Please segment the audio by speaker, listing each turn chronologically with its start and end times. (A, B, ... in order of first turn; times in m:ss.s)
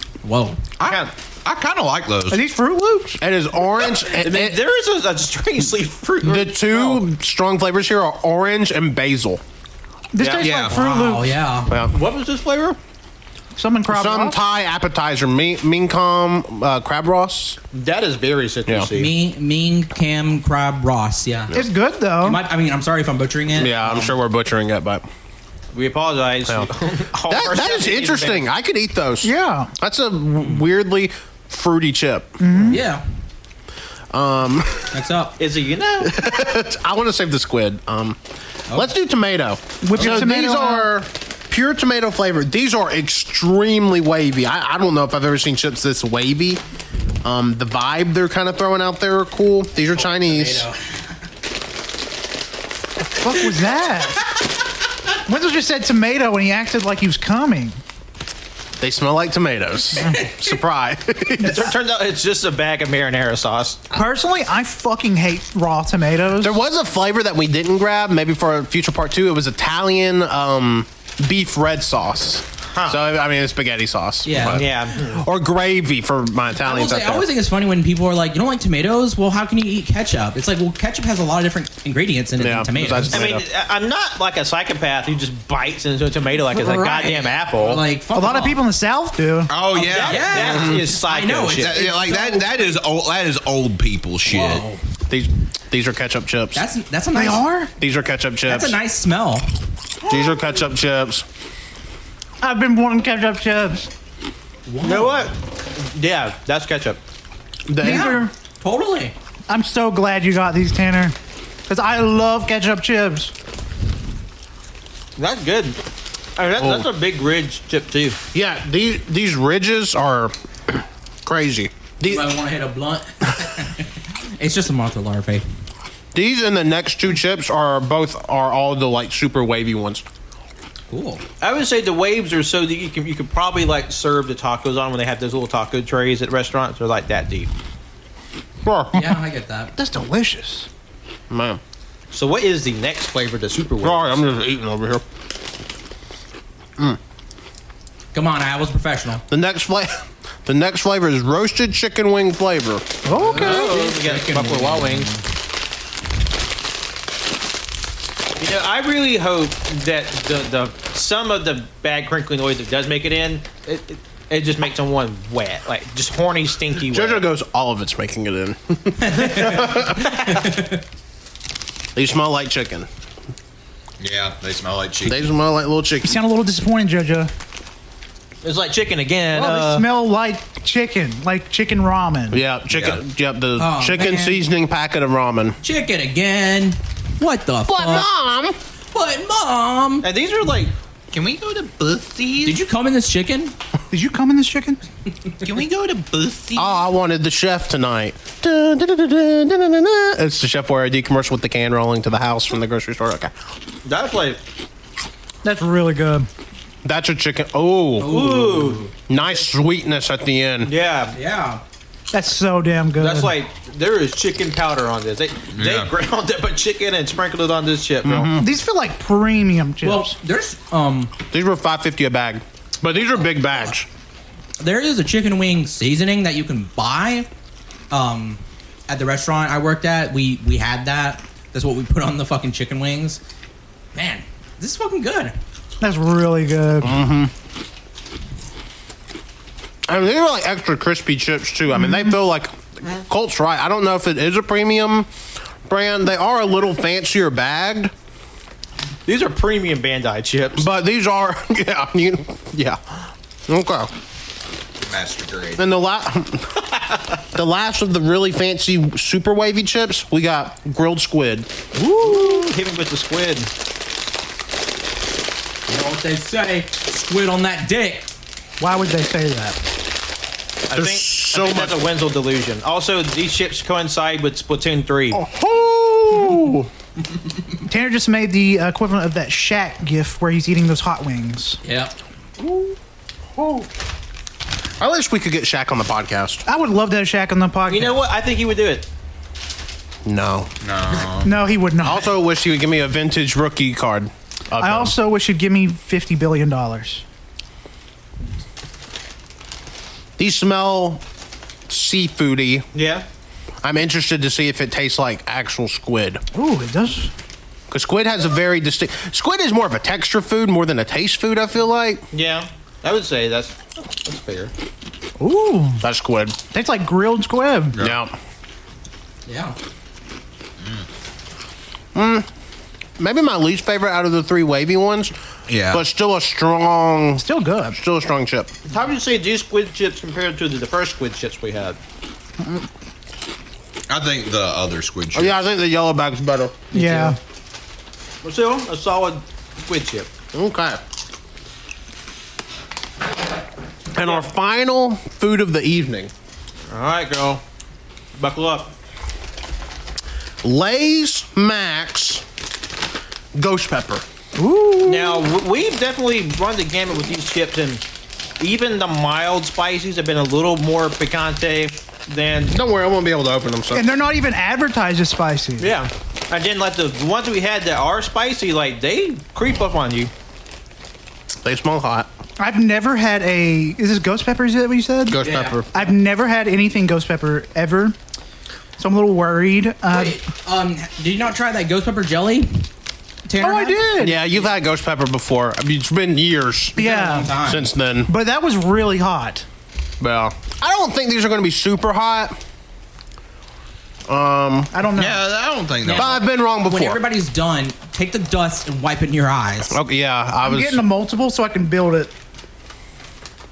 0:00.2-0:00.7 A
0:00.8-0:02.4 B
0:00.8-0:01.1 C
0:02.3-0:03.2 D
0:03.2-0:04.6 E
0:03.6-0:07.0 C
0:06.2-0:09.4 E
0:10.1-0:11.4 D
0:10.2-0:10.5 C
0:10.4-0:10.8 B
0:10.7-0:11.7 A
0:11.7-0:11.9 E
0:11.8-0:12.8 C
0:13.6-0:14.4 D
0:13.9-0:17.6 E
0:17.7-0:19.1 C
0:18.9-0:21.6 A
0:21.5-0:22.4 D
0:22.2-0:24.2 A
0:23.6-0:25.0 E
0:25.7-0:28.5 C
0:27.3-0:32.7 E
0:29.2-0:29.7 D
0:32.4-0:32.8 D
0:32.7-0:33.0 A
0:34.1-0:35.0 E
0:34.9-0:35.4 A
0:35.4-0:36.2 C
0:36.0-0:38.2 E
0:38.7-0:46.6 E
0:39.8-0:40.9 D
0:47.2-0:50.7 E
0:49.8-0:50.8 A
0:53.2-0:54.2 D
0:54.0-0:54.4 A
0:55.3-0:57.8 D
0:58.8-1:01.7 E
1:00.0-1:00.5 A
1:01.4-1:03.8 C
1:03.9-1:06.6 D
1:06.4-1:17.3 E
1:12.7-1:13.0 C
1:14.2-1:14.9 A
1:14.4-1:15.2 C
1:16.6-1:23.4 A
1:22.4-1:23.4 E
1:23.1-1:27.8 C
1:26.5-1:28.6 A
1:28.2-1:29.5 D
1:29.5-1:30.7 B
1:29.7-1:31.9 C
1:29.9-1:32.4 A
1:30.4-1:30.8 E
1:31.6-1:34.6 B
1:34.3-1:34.8 A
1:35.1-1:36.6 E
1:36.6-1:37.5 A
1:37.1-1:37.7 D
1:37.8-1:38.8 E
1:38.5-1:39.5 A
1:40.1-1:41.3 E
1:42.4-1:43.9 D
1:44.7-1:45.3 A
1:44.8-1:47.0 C
1:47.7-1:48.2 E
1:47.8-1:48.3 D
1:47.8-1:49.1 A
1:49.5-1:51.2 D
1:51.7-1:53.3 D
1:55.2-1:55.8 C
1:56.4-1:58.2 C
1:56.6-1:56.9 E
1:58.3-2:02.3 E
2:02.0-2:05.4 A
2:06.1-2:10.0 E
2:10.9-2:11.2 A
2:11.4-2:17.5 C
2:18.6-2:19.1 E
2:18.9-2:19.7 A
2:19.8-2:20.7 D
2:21.3-2:21.6 E
2:22.1-2:24.2 C
2:23.8-2:25.0 E
2:28.1-2:29.2 A
2:29.3-2:32.8 E
2:33.0-2:33.7 D
2:33.1-2:35.2 A
2:33.3-2:35.1 C
2:38.4-2:47.2 C
2:46.8-2:50.2 E
2:49.0-2:50.8 A
2:52.0-2:52.9 E
2:54.0-2:55.2 B
2:55.0-2:56.1 E
2:56.0-2:57.3 D
2:58.4-2:59.9 C
2:59.3-3:02.4 D
3:02.3-3:05.6 E
3:02.7-3:03.0 B
3:03.6-3:04.4 A
3:05.6-3:08.1 A
3:07.7-3:08.6 E
3:08.9-3:10.1 A
3:10.0-3:10.7 C
3:11.1-3:12.6 B
3:12.4-3:13.6 A
3:13.9-3:14.8 D
3:15.4-3:16.8 B
3:16.6-3:23.3 E
3:23.8-3:24.4 C
3:25.4-3:26.3 D
3:26.8-3:28.2 E
3:28.0-3:28.9 A
3:28.0-3:29.3 C
3:29.1-3:30.7 E
3:30.6-3:31.2 C
3:31.1-3:31.6 A
3:32.1-3:33.3 D
3:33.0-3:38.3 C
3:35.5-3:35.9 B
3:38.0-3:38.5 E
3:38.4-3:40.2 D
3:39.8-3:41.1 A
3:41.3-3:43.9 E
3:44.6-3:47.3 A
3:47.9-3:53.2 A
3:53.9-3:55.4 A
3:55.8-3:57.0 D
3:56.8-3:57.3 E
3:59.9-4:05.1 E
4:05.7-4:07.9 E
4:09.1-4:10.6 C
4:10.6-4:13.9 E
4:14.8-4:15.7 B
4:15.6-4:16.6 E
4:17.3-4:21.5 E
4:21.8-4:22.3 D
4:21.9-4:23.5 C
4:25.7-4:28.1 A
4:28.6-4:29.6 D
4:30.7-4:35.2 C
4:30.7-4:31.8 E
4:35.1-4:36.7 E
4:37.7-4:41.6 D
4:41.6-4:42.0 A
4:42.4-4:42.8 E
4:43.4-4:43.7 E
4:44.8-4:46.4 E
4:46.5-4:48.0 D
4:47.7-4:48.9 C
4:50.1-4:50.5 E
4:50.6-4:51.3 B
4:51.2-4:52.1 D
4:51.8-4:54.9 E
4:54.6-4:57.0 D
5:00.2-5:01.0 E
5:01.7-5:02.7 E
5:02.7-5:03.0 C
5:03.6-5:06.2 E
5:06.3-5:07.1 D
5:07.7-5:12.0 E
5:12.1-5:14.5 C
5:15.2-5:15.8 D
5:15.8-5:16.4 E
5:16.5-5:17.8 D
5:17.8-5:18.1 E
5:19.3-5:19.6 A
5:22.0-5:22.3 E
5:23.0-5:25.1 E
5:25.5-5:25.8 B
5:25.7-5:28.5 E
5:27.2-5:27.8 D
5:28.7-5:31.8 C
5:33.9-5:35.4 B
5:35.1-5:36.6 E
5:36.7-5:37.2 D
5:38.2-5:40.1 C
5:40.3-5:40.8 E
5:43.9-5:46.1 E
5:44.0-5:44.3 C
5:46.7-5:47.4 C
5:48.2-5:48.7 C
5:50.4-5:52.2 E
5:53.4-5:54.0 E
5:54.4-5:55.3 D
5:54.8-5:57.8 C
5:58.4-6:02.6 C
6:02.5-6:03.9 E
6:03.7-6:05.7 D
6:05.6-6:10.1 C
6:11.4-6:12.1 E
6:12.4-6:15.2 D
6:15.1-6:15.7 E
6:15.2-6:15.6 A
6:15.7-6:18.0 D
6:18.8-6:20.2 D
6:19.9-6:22.7 A
6:23.3-6:24.4 A
6:23.4-6:24.2 D
6:24.0-6:26.8 E
6:26.8-6:27.3 D
6:26.8-6:27.7 A
6:27.4-6:28.1 E
6:28.1-6:29.5 D
6:30.0-6:32.4 E
6:34.1-6:34.7 E
6:34.7-6:35.2 D
6:34.9-6:36.2 B
6:35.8-6:39.8 A
6:35.9-6:37.0 E
6:39.7-6:40.8 E
6:40.4-6:42.1 D